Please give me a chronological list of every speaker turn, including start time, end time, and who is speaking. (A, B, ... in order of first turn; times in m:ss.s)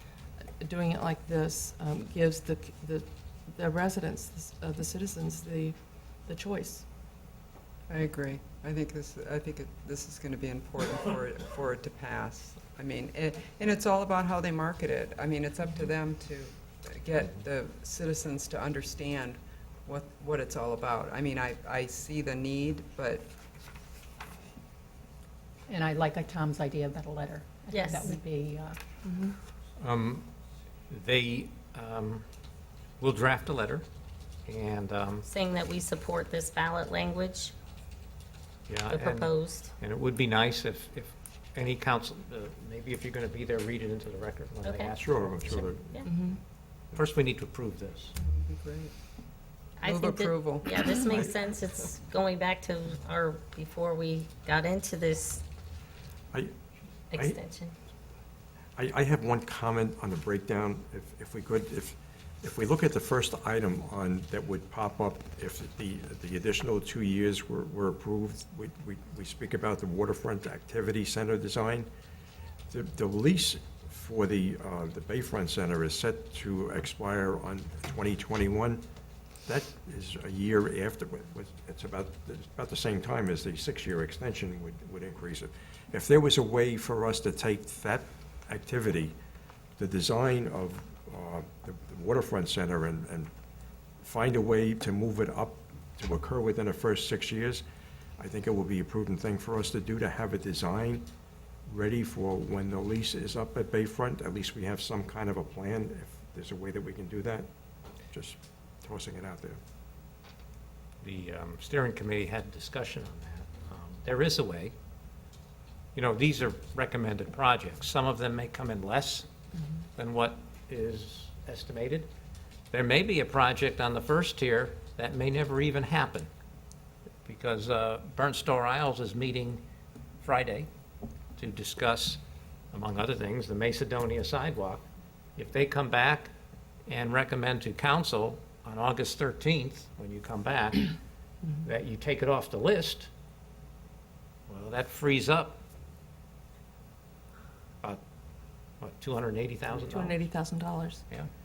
0:00.6-0:06.8 A
0:07.9-0:23.3 B
0:25.7-0:28.8 C
0:27.7-0:28.2 D
0:29.0-0:29.4 A
0:29.8-0:30.3 E
0:30.9-0:32.2 E
0:33.0-0:33.8 E
0:34.5-0:35.3 E
0:35.3-0:37.5 D
0:38.7-0:45.7 E
0:38.9-0:39.7 D
0:44.6-0:44.9 D
0:45.0-0:46.2 F
0:45.5-0:46.1 D
0:46.0-0:46.4 A
0:46.9-0:48.1 E
0:48.2-0:48.9 B
0:49.8-0:55.4 D
0:49.8-0:51.1 B
0:57.1-0:57.7 D
0:58.8-1:11.9 F
1:12.7-1:18.8 F
1:19.4-1:29.1 F
1:29.8-1:33.3 F
1:34.0-1:37.6 F
1:38.2-1:41.0 F
1:41.7-1:47.5 F
1:48.1-1:49.6 F
1:51.0-1:54.7 E
1:55.9-1:59.3 E
2:00.0-2:02.1 E
2:02.7-2:06.3 E
2:07.2-2:09.6 E
2:10.2-2:10.7 E
2:11.4-2:12.2 E
2:12.7-2:14.8 E
2:15.4-2:16.3 E
2:16.9-2:20.9 E
2:21.6-2:23.1 E
2:24.5-2:25.6 E
2:28.8-2:30.2 E
2:29.7-2:31.0 A